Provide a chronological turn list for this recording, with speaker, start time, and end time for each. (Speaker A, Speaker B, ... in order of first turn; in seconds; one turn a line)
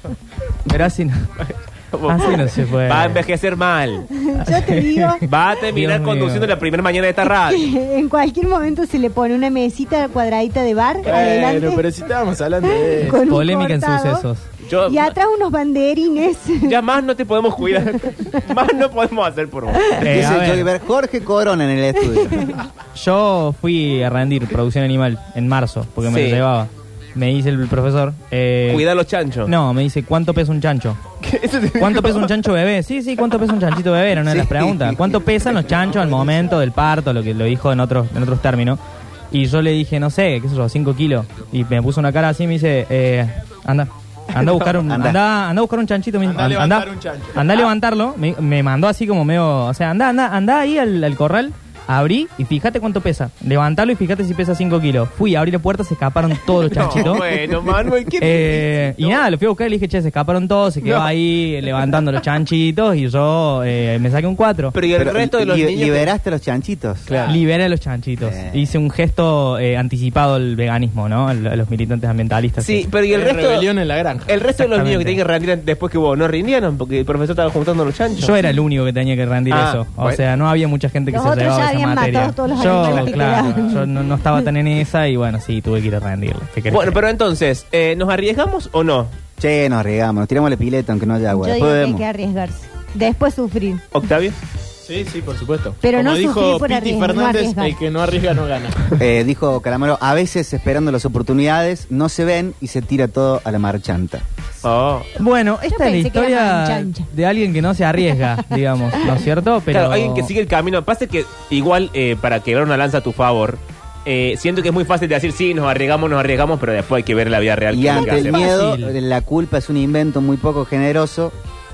Speaker A: 0.7-1.2
Speaker B: 1.4-4.1
Speaker A: 2.1-3.3
Speaker C: 4.2-5.2
Speaker A: 4.5-6.5
Speaker B: 5.2-7.7
Speaker C: 7.2-11.9
Speaker D: 11.0-13.3
Speaker C: 12.6-14.3
Speaker A: 13.2-14.4
Speaker B: 14.6-15.2
Speaker C: 14.8-16.8
Speaker B: 16.6-20.3
Speaker A: 20.0-20.7
Speaker E: 20.0-22.6
Speaker A: 22.9-28.9
Speaker B: 26.0-26.4
Speaker B: 28.7-29.5
Speaker A: 29.4-31.0
Speaker B: 31.2-32.3
Speaker A: 31.8-38.8
Speaker E: 34.3-35.1
Speaker D: 35.7-36.5
Speaker A: 39.3-57.3
Speaker E: 44.9-45.2
Speaker D: 46.2-47.7
Speaker B: 56.5-59.2
Speaker A: 58.2-64.8
Speaker B: 60.8-61.1
Speaker B: 64.7-66.1
Speaker E: 65.0-67.1
Speaker B: 67.1-67.4
Speaker A: 67.3-72.9
Speaker E: 68.2-68.6
Speaker B: 72.6-73.7
Speaker D: 73.1-74.4
Speaker B: 74.3-78.3
Speaker A: 74.6-75.2
Speaker A: 78.2-87.0
Speaker B: 79.5-80.2
Speaker C: 81.1-84.5
Speaker B: 82.7-83.1
Speaker B: 86.7-89.2
Speaker E: 89.4-92.0
Speaker C: 91.3-93.8
Speaker B: 93.9-94.4
Speaker D: 94.8-99.0
Speaker C: 95.8-97.8
Speaker E: 99.0-104.2
Speaker B: 104.6-105.1
Speaker A: 105.2-110.3
Speaker C: 105.7-107.1
Speaker B: 109.7-118.5
Speaker E: 117.7-121.3
Speaker A: 118.1-119.0